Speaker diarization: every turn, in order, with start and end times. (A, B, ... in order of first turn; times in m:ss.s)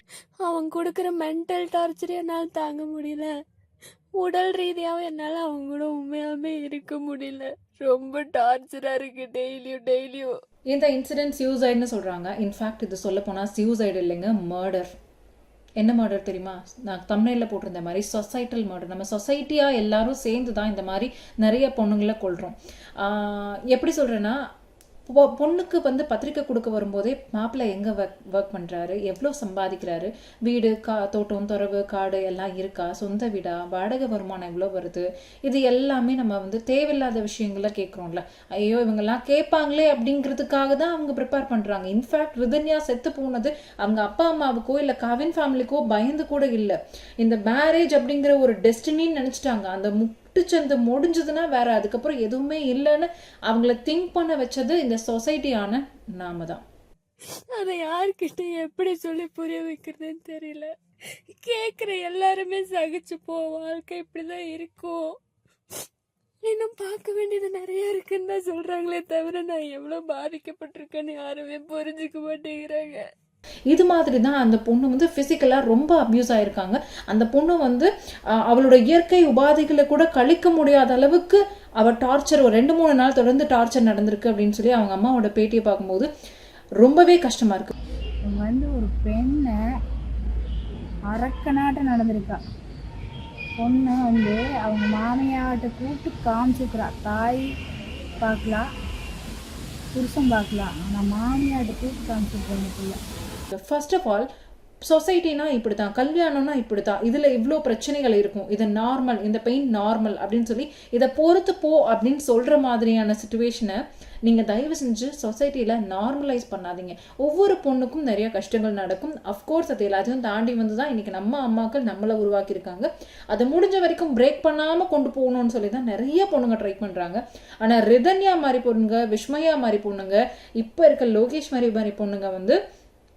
0:00.4-0:03.3 A
0:04.2-0:10.3 A
0:10.7-0:14.9 B
0:15.8-0:24.4 B
0:25.1-0:56.6 B
0:57.6-1:00.7 A
1:01.3-1:05.1 A
1:06.4-1:13.0 A
1:13.7-1:17.9 B
1:18.4-1:26.1 B
1:26.8-1:27.7 B
1:28.3-1:29.6 C
1:31.1-1:32.4 C
1:33.6-1:37.5 C
1:38.2-1:38.7 C
1:39.9-1:43.0 C
1:43.5-1:44.3 B
1:44.9-2:12.6 B